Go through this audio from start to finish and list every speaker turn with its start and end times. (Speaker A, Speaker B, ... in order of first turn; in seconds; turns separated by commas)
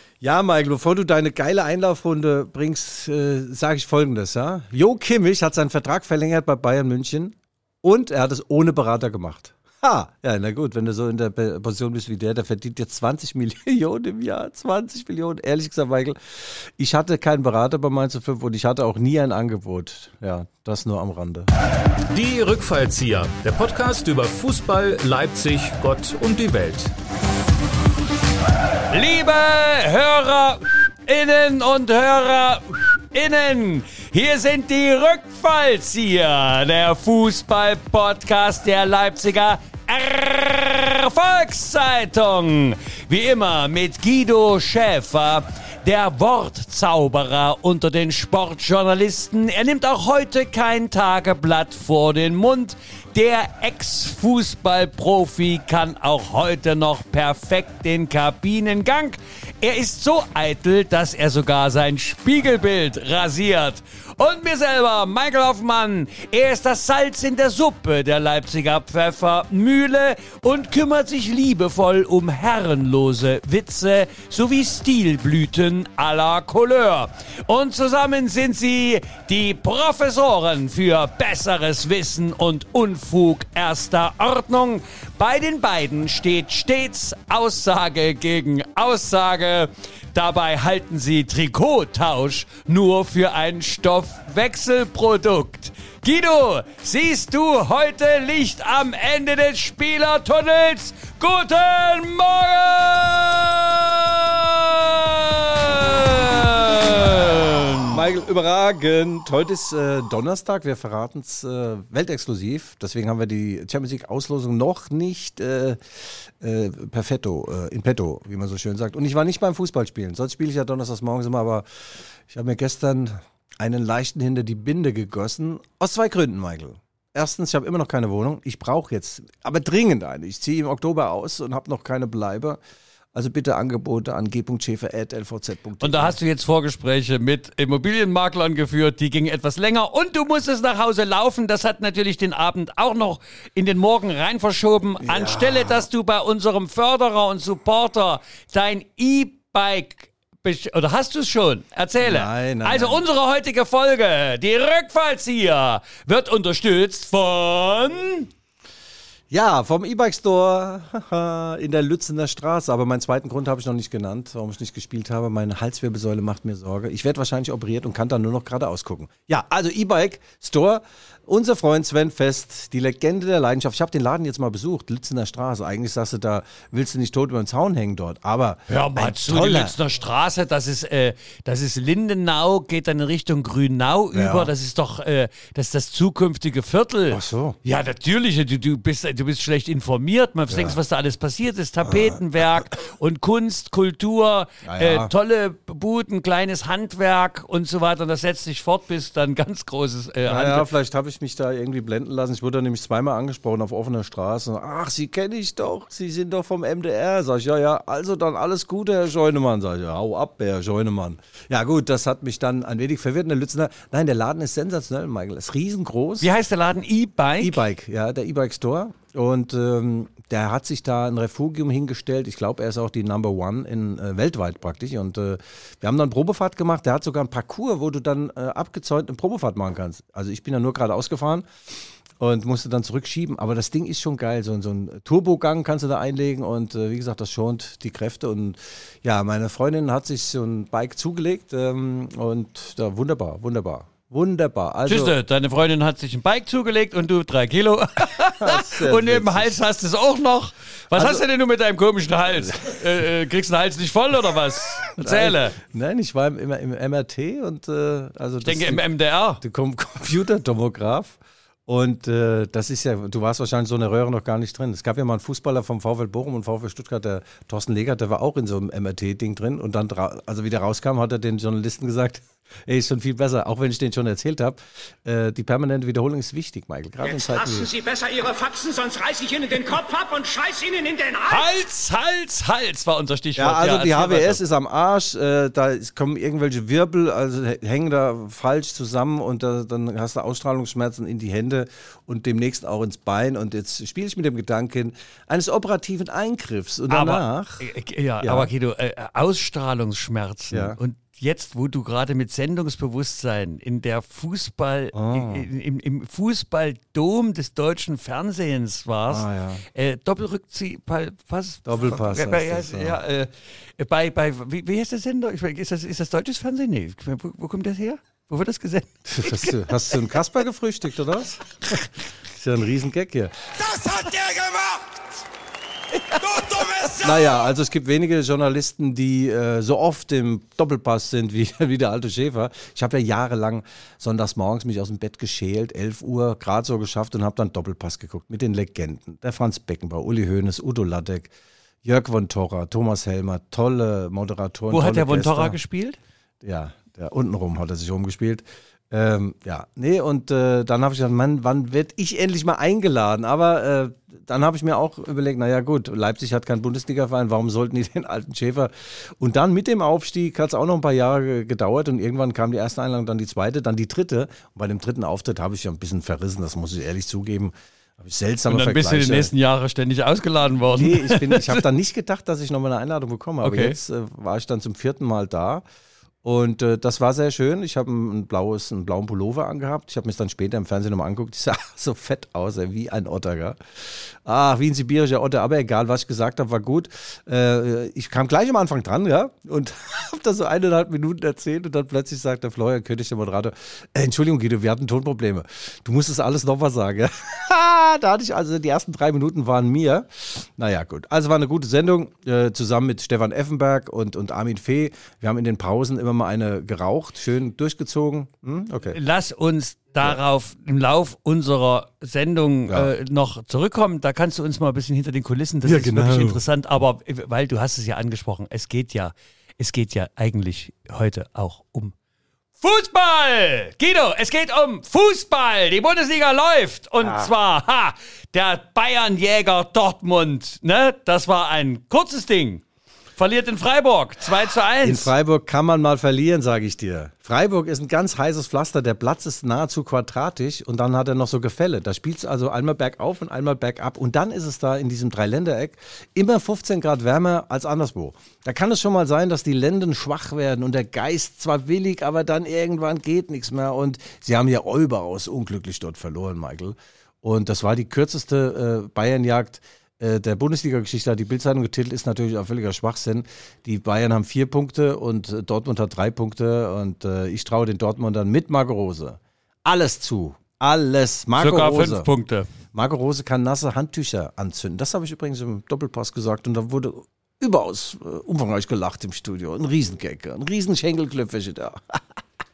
Speaker A: 0.2-21.5, Speaker B: 22.1-26.9, Speaker C: 28.9-108.0, Speaker A: 107.9-121.7, Speaker A: 122.3-132.6, Speaker A: 133.1-136.2, Speaker C: 135.8-158.3, Speaker A: 145.0-145.8, Speaker A: 152.0-153.0, Speaker A: 159.3-179.7, Speaker C: 178.7-200.7, Speaker A: 184.1-184.5, Speaker A: 187.1-187.6, Speaker A: 190.5-190.8, Speaker A: 191.8-192.2, Speaker A: 194.6-195.1, Speaker A: 200.2-216.3, Speaker C: 216.2-217.6, Speaker A: 217.4-231.4, Speaker A: 232.2-245.2, Speaker C: 244.8-255.6, Speaker A: 248.4-249.5, Speaker A: 250.9-251.2, Speaker A: 252.4-252.8, Speaker A: 255.0-258.8, Speaker C: 258.4-259.4, Speaker A: 259.4-277.7, Speaker D: 277.0-281.4, Speaker C: 281.2-284.4, Speaker A: 283.4-298.5, Speaker C: 296.9-320.0, Speaker A: 300.5-300.8, Speaker A: 304.9-305.5, Speaker A: 309.1-309.6, Speaker A: 311.6-313.0, Speaker A: 319.1-323.6, Speaker D: 324.1-324.9, Speaker C: 326.1-326.5, Speaker D: 326.3-327.3, Speaker A: 326.9-341.3, Speaker A: 341.8-345.6, Speaker C: 344.7-346.0, Speaker A: 346.4-369.3, Speaker C: 368.5-371.6, Speaker A: 370.7-375.6, Speaker C: 373.4-373.8, Speaker A: 376.2-409.0, Speaker C: 408.9-421.9, Speaker A: 415.6-416.4, Speaker C: 422.6-432.6, Speaker A: 427.0-427.3, Speaker C: 433.2-435.1, Speaker A: 434.8-472.1, Speaker C: 471.4-472.5, Speaker A: 472.7-482.0